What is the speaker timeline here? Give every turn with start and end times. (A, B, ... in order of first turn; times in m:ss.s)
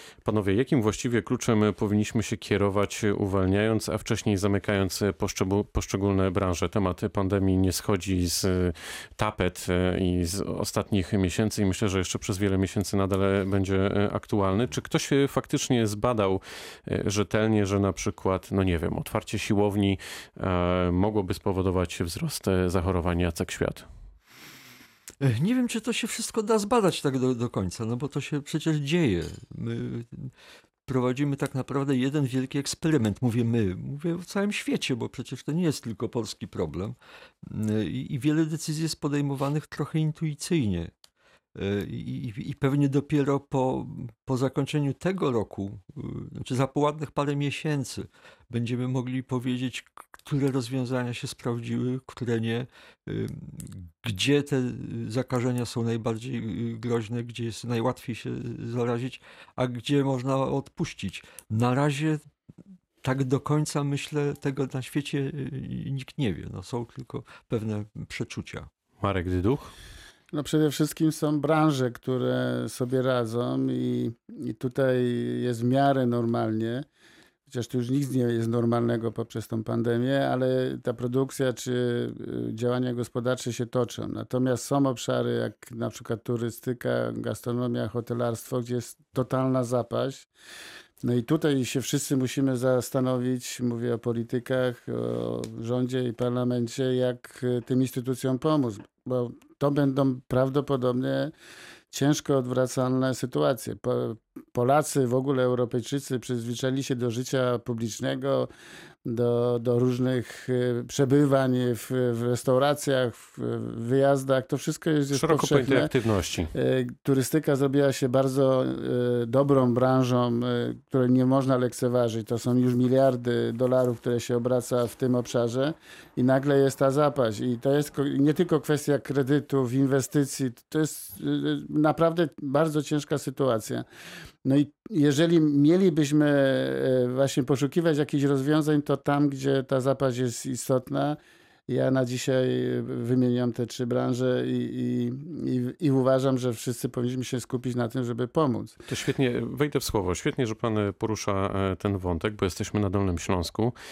0:00.2-0:23.8 A
0:25.2-0:30.3 B
0:30.9-0:36.9 B
0:37.4-0:40.9 B
0:41.6-1:02.2 B
1:03.0-1:08.7 B
1:09.0-1:09.7 A
1:10.3-1:16.8 C
1:17.5-1:30.3 C
1:31.0-1:41.3 C
1:41.9-1:48.5 C
1:49.0-1:55.9 C
1:55.1-1:56.5 A
1:56.5-2:13.8 C
2:14.4-2:28.8 C
2:28.9-2:33.7 A